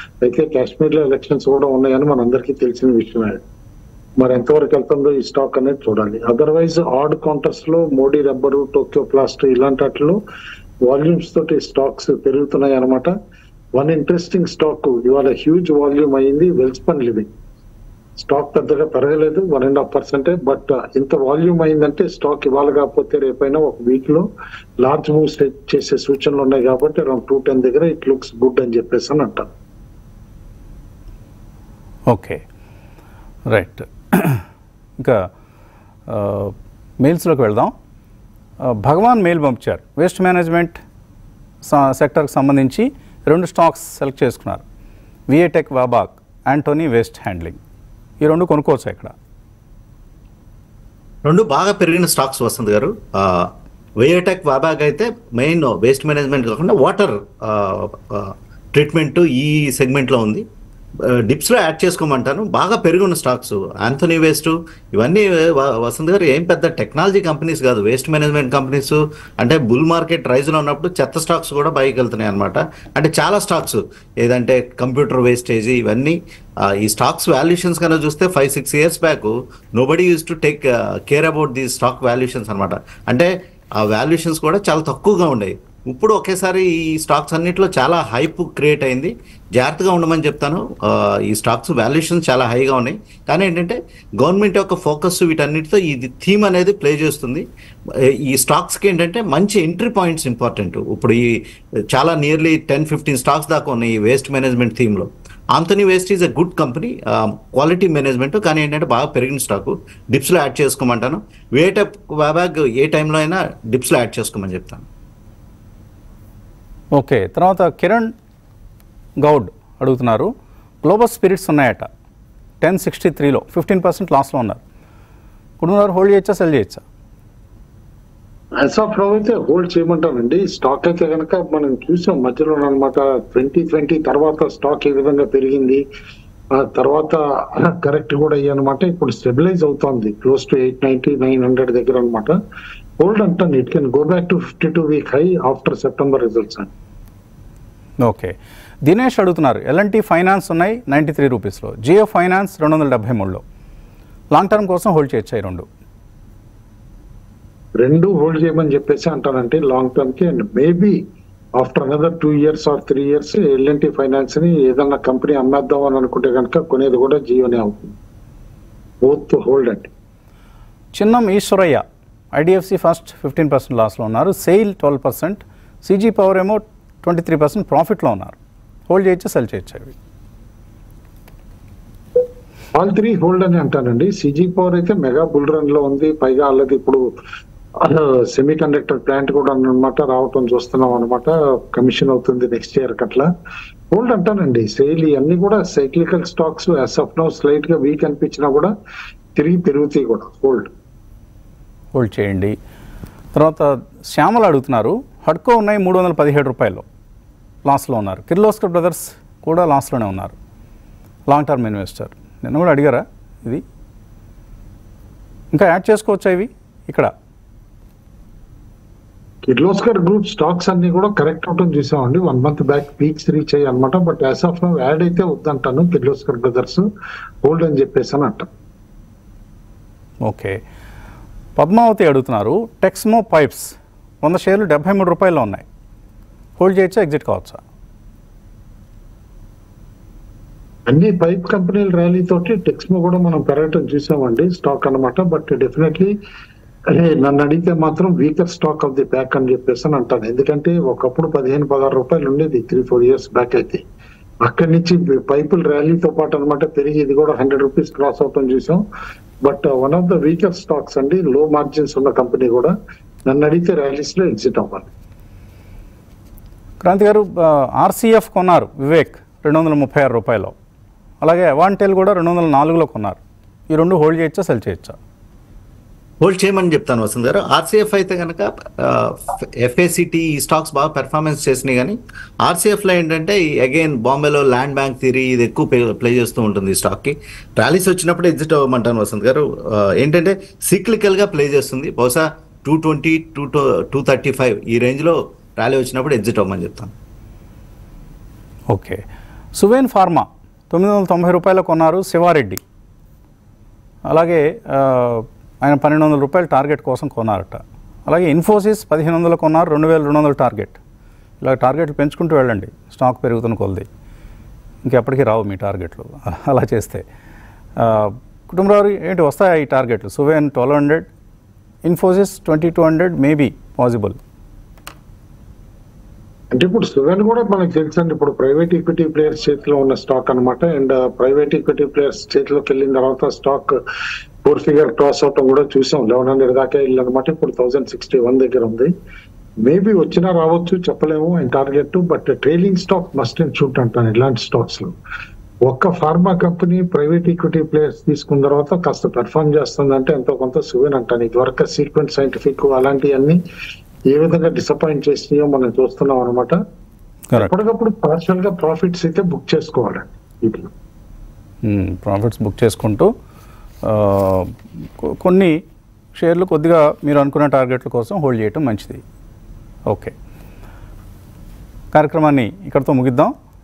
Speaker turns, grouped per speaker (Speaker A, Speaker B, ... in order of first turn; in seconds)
Speaker A: 0.2-3.4, 4.2-10.2, 10.8-13.1, 13.8-17.3, 18.2-24.3, 24.8-29.5, 128.6-135.8, 136.5-142.4, 143.0-146.7, 157.8-161.0, 161.6-168.0, 169.0-169.9, 182.7-187.0, 187.8-193.3, 193.9-198.7, 199.4-200.7, 219.4-226.8, 227.4-228.5, 240.9-246.1, 246.9-253.8, 254.4-258.8, 259.4-262.7, 263.3-264.9, 326.5-333.8, 334.4-338.9, 339.6-344.9, 345.7-353.4, 354.1-356.6, 357.4-360.7
Speaker B: 32.1-32.4, 33.5-34.4, 35.0-35.3, 36.1-37.7, 38.6-40.8, 41.7-44.6, 45.3-47.6, 48.2-49.1, 117.0-118.1, 119.2-121.9, 122.6-124.6, 125.6-126.8, 148.1-148.3, 148.8-153.4, 154.3-155.7, 170.9-178.4, 178.9-179.9, 201.9-202.6, 203.3-206.8, 207.7-210.3, 211.3-213.6, 215.5-217.1, 230.2-230.6, 231.6-233.7, 234.2-235.7, 236.6-237.6, 266.8-270.5, 271.2-273.2, 273.7-275.0, 298.7-299.0, 299.6-302.6, 304.1-310.8, 311.4-313.9, 314.8-317.0, 317.8-321.1, 321.9-324.2, 361.6-363.1, 363.8-365.6, 366.2-369.0, 371.9-373.3
Speaker C: 51.2-60.4, 61.1-101.4, 101.9-114.9, 276.2-296.9